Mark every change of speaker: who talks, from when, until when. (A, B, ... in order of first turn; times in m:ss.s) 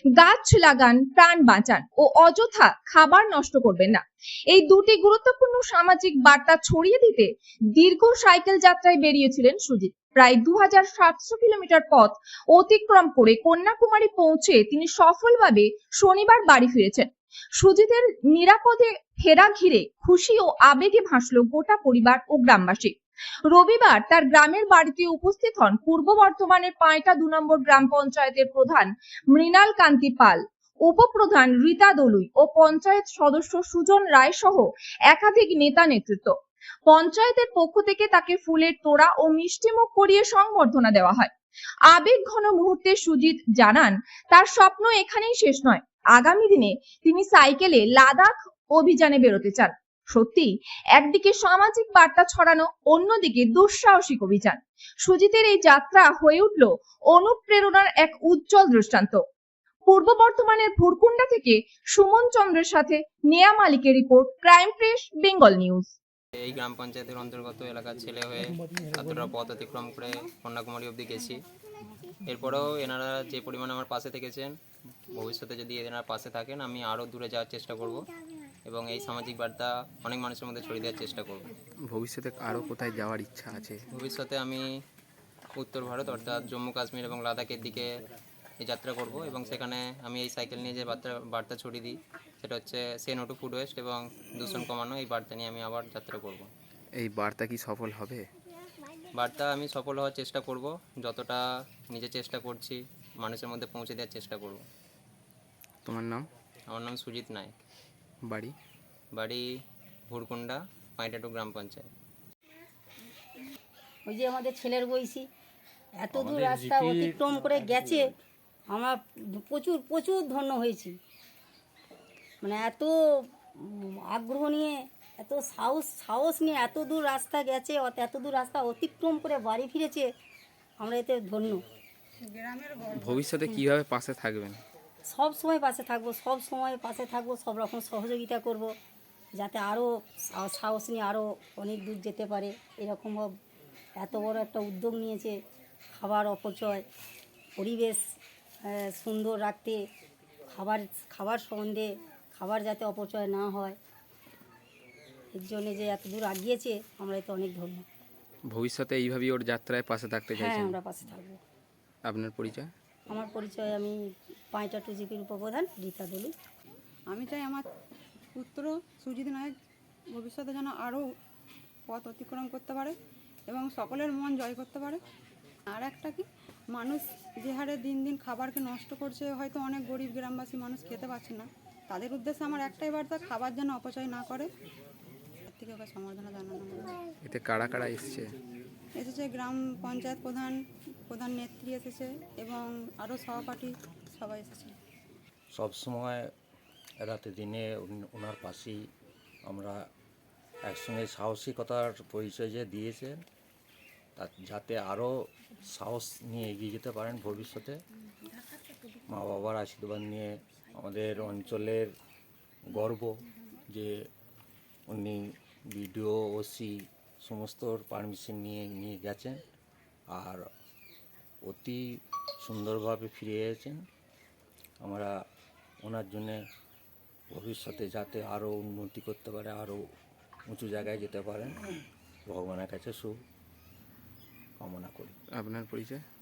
0:00.2-0:22.9 A
0:23.5-0:36.4 A
0:36.9-0:41.3 A
0:41.9-0:59.2 A
0:59.9-1:05.9 A
1:06.5-1:11.4 B
1:12.2-1:14.5 B
1:15.1-1:18.0 B
1:18.7-1:21.5 B
1:21.9-1:23.8 C
1:23.9-1:24.6 B
1:25.6-1:27.9 B
1:28.6-1:36.5 B
1:36.9-1:38.2 C
1:39.2-1:44.6 B
1:45.8-1:46.3 C
1:46.7-1:47.6 B
1:48.2-1:48.5 C
1:49.2-1:49.4 B
1:50.1-1:51.9 B
1:54.1-1:55.2 D
1:56.0-1:58.1 D
1:58.7-2:00.9 D
2:02.4-2:10.1 D
2:10.8-2:11.6 D
2:12.2-2:13.3 E
2:13.0-2:14.6 C
2:15.1-2:18.7 D
2:19.4-2:23.3 D
2:24.0-2:25.4 D
2:26.0-2:26.8 D
2:27.6-2:28.0 D
2:28.7-2:29.8 D
2:30.5-2:33.8 D
2:35.3-2:37.8 D
2:38.5-2:40.8 C
2:40.3-2:41.4 D
2:42.0-2:42.7 C
2:43.1-2:43.9 D
2:44.5-2:46.3 D
2:47.1-2:47.6 E
2:48.3-2:49.5 E
2:50.1-2:51.0 E
2:51.9-2:52.9 E
2:53.5-2:55.0 E
2:55.7-3:04.5 E
3:05.5-3:07.0 E
3:07.2-3:08.3 C
3:09.0-3:10.6 E
3:11.1-3:14.7 E
3:15.5-3:16.2 F
3:17.0-3:18.8 F
3:19.5-3:19.8 F
3:20.6-3:23.2 F
3:24.2-3:25.1 F
3:25.6-3:27.8 F
3:29.1-3:31.9 F
3:32.7-3:33.1 F
3:33.7-3:33.9 F
3:34.9-3:39.4 F
3:40.1-3:40.4 F
3:41.4-3:41.8 F
3:42.4-3:43.8 F
3:44.8-3:45.1 F
3:45.8-3:46.4 F
3:47.3-3:49.8 F
3:50.5-3:51.6 F
3:52.3-3:53.2 F
3:54.6-3:55.1 F
3:55.3-3:56.0 C